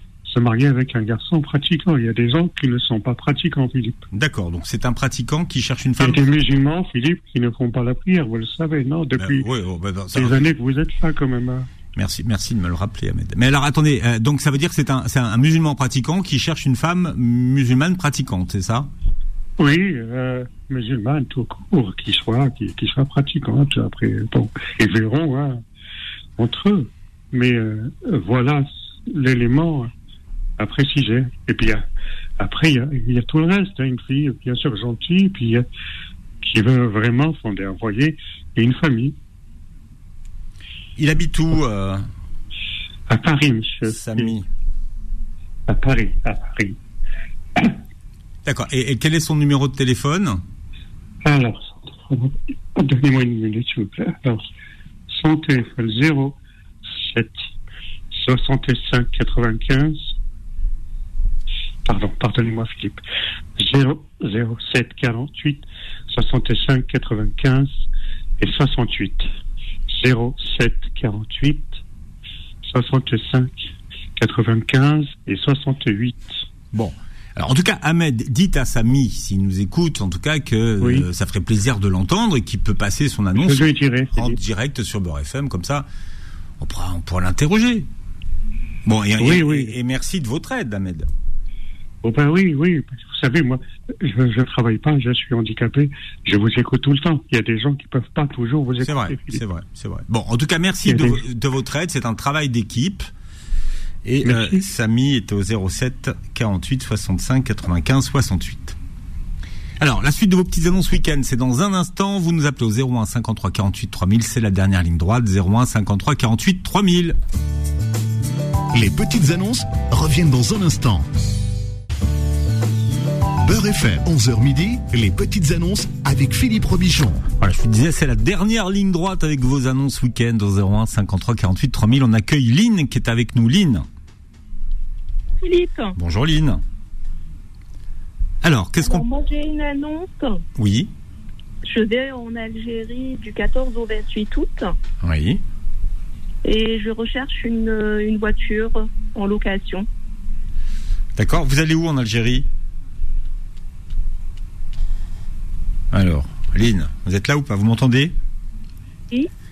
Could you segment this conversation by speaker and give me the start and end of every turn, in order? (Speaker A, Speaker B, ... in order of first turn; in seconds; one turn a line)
Speaker A: 0.2-4.0
Speaker B: 4.1-6.2
Speaker A: 6.0-9.4
Speaker B: 9.2-10.4
Speaker A: 10.1-11.7
Speaker B: 11.9-18.9
Speaker A: 19.6-25.6
Speaker A: 26.4-29.9
Speaker A: 30.6-31.8
Speaker A: 32.4-35.6
Speaker A: 36.4-39.1
Speaker B: 41.0-42.0
Speaker A: 43.1-44.3
Speaker B: 43.9-44.5
Speaker A: 45.7-46.8
Speaker B: 48.4-50.4
Speaker A: 51.2-54.5
Speaker A: 55.1-57.4
Speaker A: 58.1-60.1
Speaker A: 61.8-63.0
Speaker A: 63.6-67.8
Speaker A: 68.4-69.3
Speaker A: 69.9-71.8
Speaker A: 72.6-76.4
Speaker B: 76.7-85.9
Speaker A: 80.8-81.1
Speaker A: 83.3-84.4
Speaker B: 86.6-87.9
Speaker B: 88.8-91.1
Speaker A: 89.2-89.7
Speaker A: 92.0-99.4
Speaker B: 98.8-103.1
Speaker A: 100.8-101.2
Speaker B: 104.0-108.8
Speaker A: 104.2-104.6
Speaker B: 109.8-117.2
Speaker C: 118.7-121.1
Speaker C: 123.4-127.2
Speaker B: 127.4-133.8
Speaker D: 135.4-135.9
Speaker B: 136.0-136.6
Speaker B: 138.4-139.0
Speaker D: 138.8-140.4
Speaker B: 140.6-140.9
Speaker D: 141.6-144.7
Speaker B: 145.0-145.4
Speaker D: 146.4-149.9
Speaker B: 151.2-152.4
Speaker B: 155.9-158.1